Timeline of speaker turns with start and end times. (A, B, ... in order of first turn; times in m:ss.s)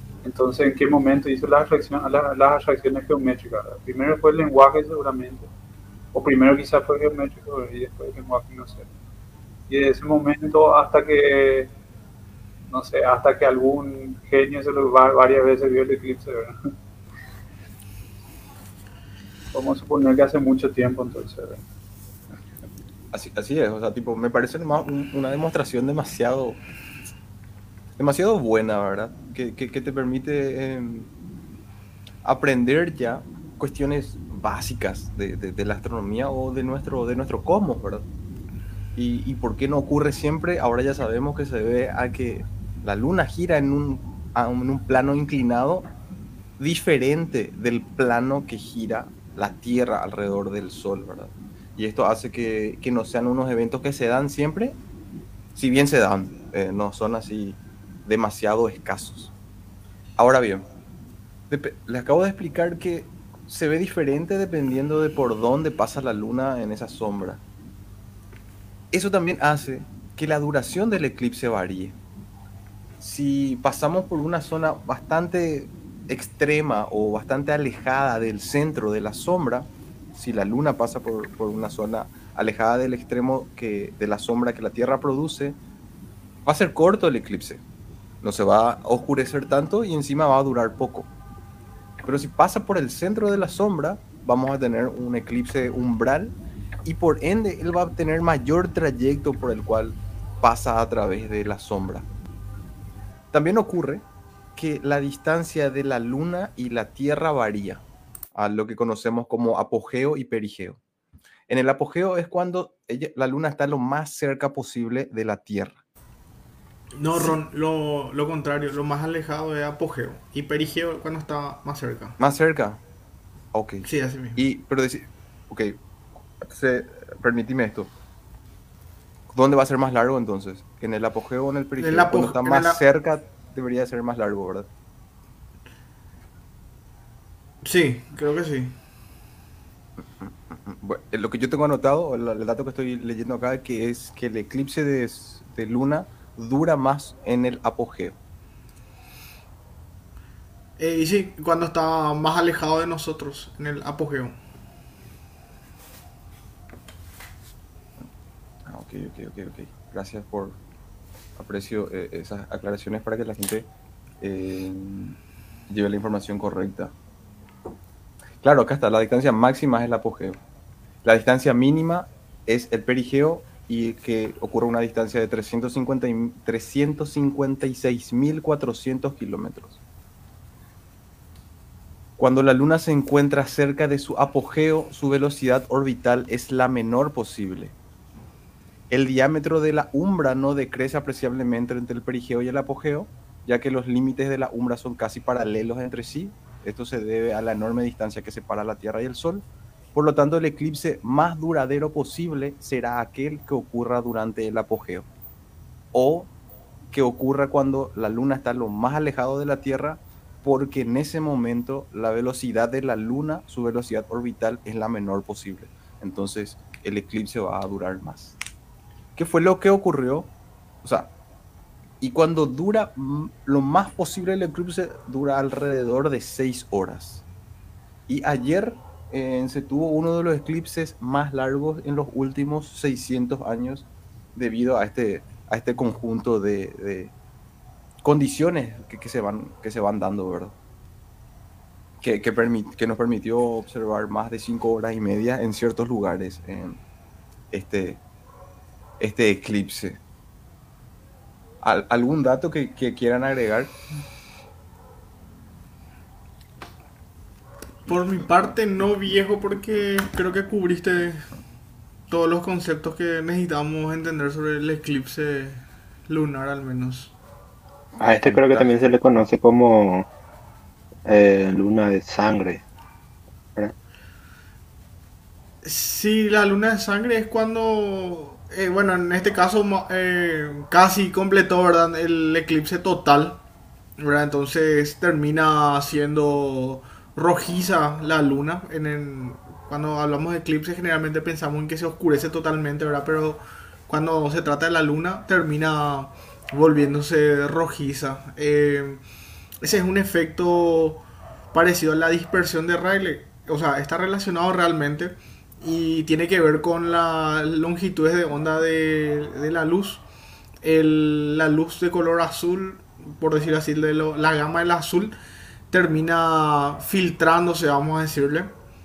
0:00.2-0:05.5 A
0:06.1-0:08.9 A
0:09.7-0:11.7 A
0:12.7-0:16.7 A
0:19.5-0:21.6 A
0:23.1-0:26.6 B
0:28.0-0:31.1 B
0:32.2-0:38.1 B
0:39.0-0:45.9 B
0:46.6-0:54.8 B
0:55.6-0:59.3 B
1:00.2-1:00.7 B
1:01.5-1:07.4 B
1:08.9-1:12.0 B
1:13.0-1:25.6 B
1:26.4-1:27.6 B
1:28.2-1:31.1 B
1:32.0-1:42.1 B
1:43.3-1:44.0 B
1:44.6-1:47.8 B
1:48.4-1:50.8 B
1:51.5-1:55.8 B
1:57.0-2:02.2 C
2:02.2-2:02.8 B
2:03.5-2:05.8 B
2:03.8-2:04.4 C
2:06.4-2:07.9 B
2:09.3-2:14.7 B
2:11.8-2:12.8 C
2:17.6-2:18.8 C
2:20.0-2:28.2 B
2:30.8-2:34.4 C
2:38.7-2:40.6 B
2:41.4-2:43.7 B
2:44.2-2:45.2 B
2:45.7-2:46.9 B
2:48.4-2:50.4 B
2:51.0-2:59.8 B
3:02.2-3:07.8 B
3:08.9-3:25.1 B
3:25.9-3:26.3 B
3:26.9-3:38.4 B
3:39.2-3:40.3 B
3:40.8-3:41.1 B
3:42.0-3:47.2 B
3:48.1-3:57.1 B
3:58.0-4:00.6 B
4:02.0-4:06.8 B
4:07.5-4:08.0 B
4:09.0-4:10.0 B
4:11.6-4:13.7 B
4:17.9-4:21.3 C
4:22.1-4:27.1 C
4:28.0-4:28.7 B
4:28.0-4:30.1 D
4:31.1-4:32.6 D
4:35.6-4:43.4 C
4:44.0-4:59.0 C
4:59.6-5:10.0 C
5:10.6-5:15.1 C
5:15.7-5:18.5 C